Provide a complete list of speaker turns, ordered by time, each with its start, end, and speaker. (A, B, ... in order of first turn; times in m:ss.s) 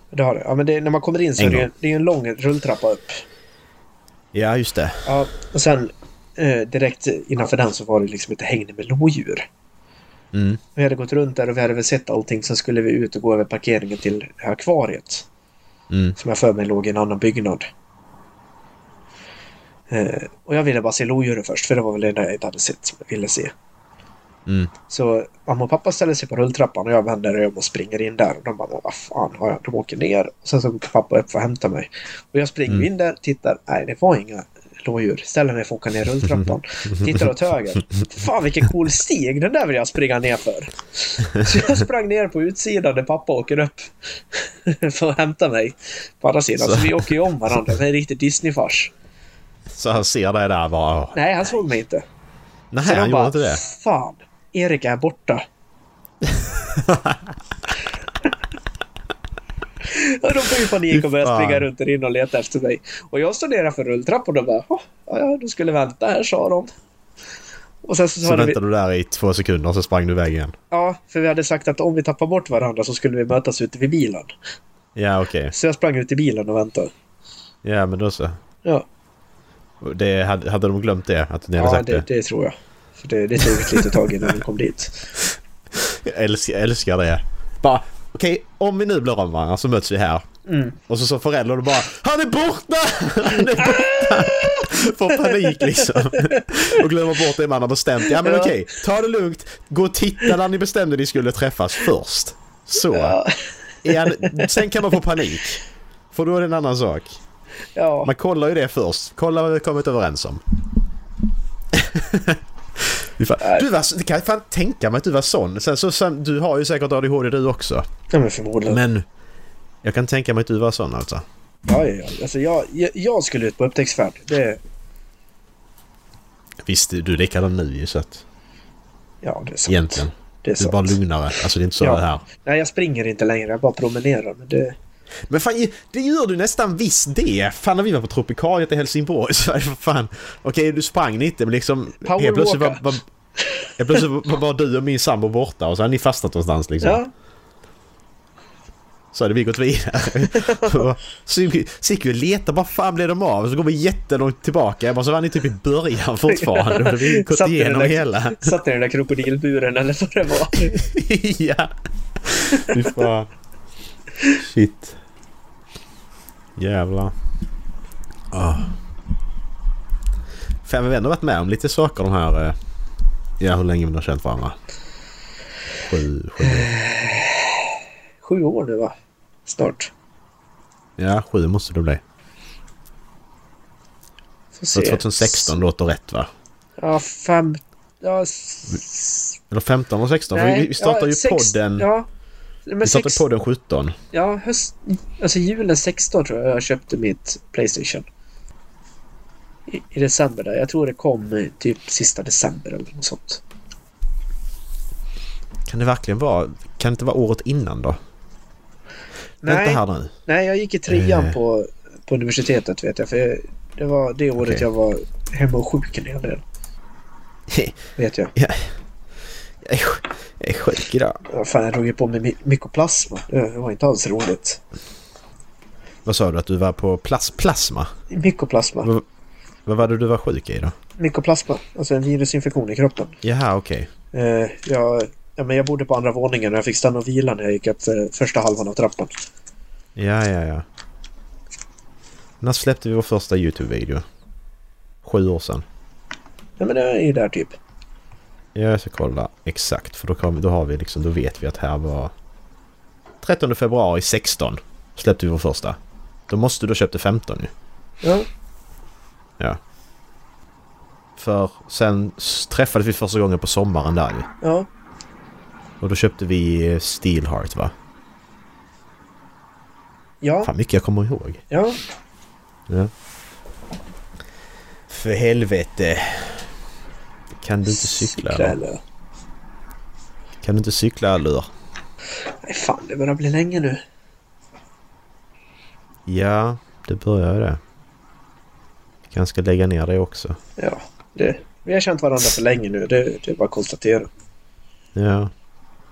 0:00.1-0:03.2 A
0:01.4-0:01.7 B
0:04.3-0:05.1 B
0:05.0-0:09.4 A
0:10.3-0:10.6 B
0:10.8-0:15.3 A
0:15.9-0:16.2 B
0:16.2-0:17.7 A
0:19.9-0:23.5 A
0:24.4-0:24.7 B
0:24.9-0:48.9 A
0:36.3-0:37.2 B
0:46.6-0:47.2 B
0:49.7-0:51.2 B
0:51.1-0:52.0 A
0:52.7-0:53.6 B
0:52.8-0:55.4 A
0:56.6-0:57.2 B
0:59.8-1:06.7 A
1:00.9-1:01.7 B
1:07.8-1:08.6 A
1:08.2-1:10.6 B
1:10.7-1:14.3 A
1:15.0-1:15.5 B
1:15.5-1:16.9 A
1:17.6-1:18.4 B
1:19.8-1:22.0 B
1:21.6-1:25.1 A
1:23.5-1:23.9 B
1:25.7-1:30.3 B
1:30.4-1:30.8 A
1:30.9-1:43.2 B
1:33.4-1:36.8 A
1:38.0-1:38.6 A
1:42.9-1:43.3 A
1:43.8-1:45.6 B
1:43.9-1:44.6 A
1:46.1-1:47.2 B
1:47.7-1:48.1 A
1:48.0-1:50.4 B
1:51.7-1:57.8 B
1:53.4-1:53.6 A
1:58.1-1:58.8 A
1:58.7-1:59.0 B
1:59.8-2:01.2 B
2:01.6-2:04.6 A
2:06.6-2:08.2 B
2:09.2-2:11.0 A
2:09.6-2:12.2 B
2:11.8-2:14.8 A
2:15.3-2:23.0 B
2:22.0-2:22.8 A
2:23.4-2:24.0 A
2:23.8-2:27.0 B
2:26.8-2:27.1 A
2:29.1-2:38.5 B
2:30.3-2:30.8 A
2:36.3-2:40.8 A
2:40.7-2:43.3 B
2:42.5-2:42.9 A
2:44.3-2:45.0 B
2:46.6-2:47.1 B
2:48.3-2:48.7 B
2:50.6-2:52.6 B
2:53.4-2:54.6 B
2:55.8-2:56.7 B
2:56.4-2:58.9 A
2:59.4-2:59.9 A
3:01.0-3:02.0 B
3:04.6-3:05.5 A
3:04.7-3:06.3 B
3:06.8-3:09.4 A
3:09.5-3:11.9 B
3:10.3-3:12.1 A
3:12.6-3:13.2 A
3:12.8-3:14.0 B
3:14.1-3:18.1 A
3:19.7-3:23.4 A
3:25.7-3:28.0 B
3:29.4-3:36.4 A
3:29.4-3:30.1 B
3:30.9-3:31.4 B
3:34.4-3:34.6 B
3:37.5-3:37.8 B
3:38.0-3:38.3 A
3:38.3-3:38.7 B
3:39.6-3:41.2 B
3:41.3-3:44.6 A
3:46.0-3:47.9 B
3:48.1-3:48.9 A
3:49.6-3:50.7 B
3:51.0-3:53.2 A
3:53.2-3:53.9 B
3:54.1-3:59.2 A
4:00.0-4:00.6 B
4:02.4-4:04.0 B
4:05.0-4:05.6 B
4:06.6-4:07.6 A
4:08.5-4:12.1 B
4:13.2-4:15.8 B
4:16.3-4:17.5 B
4:18.0-4:18.3 A
4:21.2-4:24.3 B
4:24.4-4:24.7 A
4:25.8-4:27.7 B
4:30.2-4:30.5 A
4:30.4-4:31.4 B
4:31.5-4:31.8 A
4:34.9-4:36.5 B
4:37.4-4:38.6 B
4:37.7-4:38.8 A
4:40.4-4:41.5 B
4:42.4-4:43.8 A
4:46.1-4:47.6 B
4:49.1-4:50.4 B
4:50.6-4:54.1 A
4:54.9-4:55.3 B